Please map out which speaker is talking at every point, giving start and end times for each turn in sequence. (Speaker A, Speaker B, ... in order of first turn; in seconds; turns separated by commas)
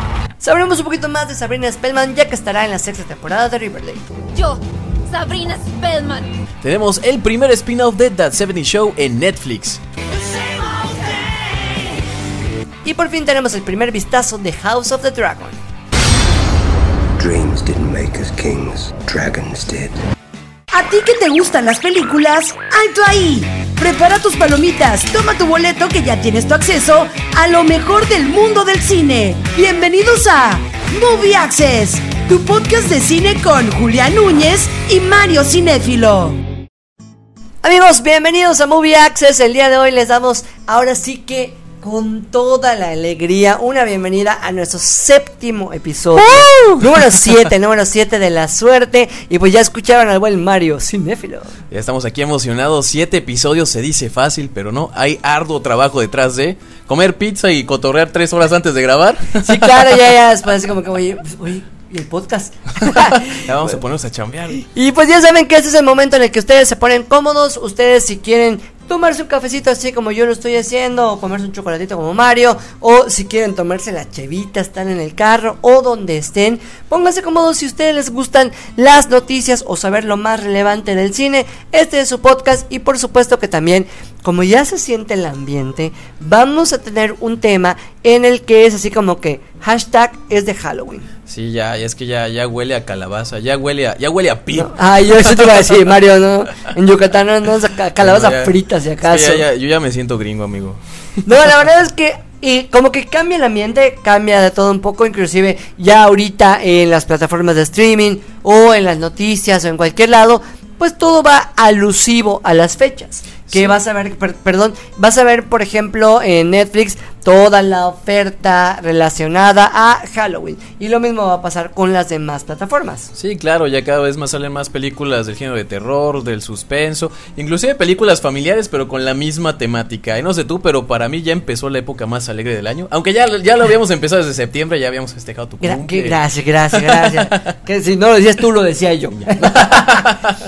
Speaker A: 0.4-4.0, Speaker B: 4.3-6.3, Speaker C: 6.6-9.8, Speaker B: 10.2-11.2, Speaker A: 12.8-15.6, Speaker D: 17.2-20.0, Speaker E: 20.7-36.4, Speaker A: 37.6-51.5, Speaker C: 46.2-47.1, Speaker C: 51.7-59.9, Speaker A: 59.4-63.4, Speaker C: 62.8-64.6, Speaker A: 64.6-91.1, Speaker C: 91.3-95.8, Speaker A: 94.5-99.4, Speaker C: 98.0-100.8, Speaker A: 101.2-123.1, Speaker C: 113.5-113.7, Speaker C: 123.1-136.2, Speaker A: 135.6-140.1, Speaker C: 136.7-137.5, Speaker C: 139.2-140.3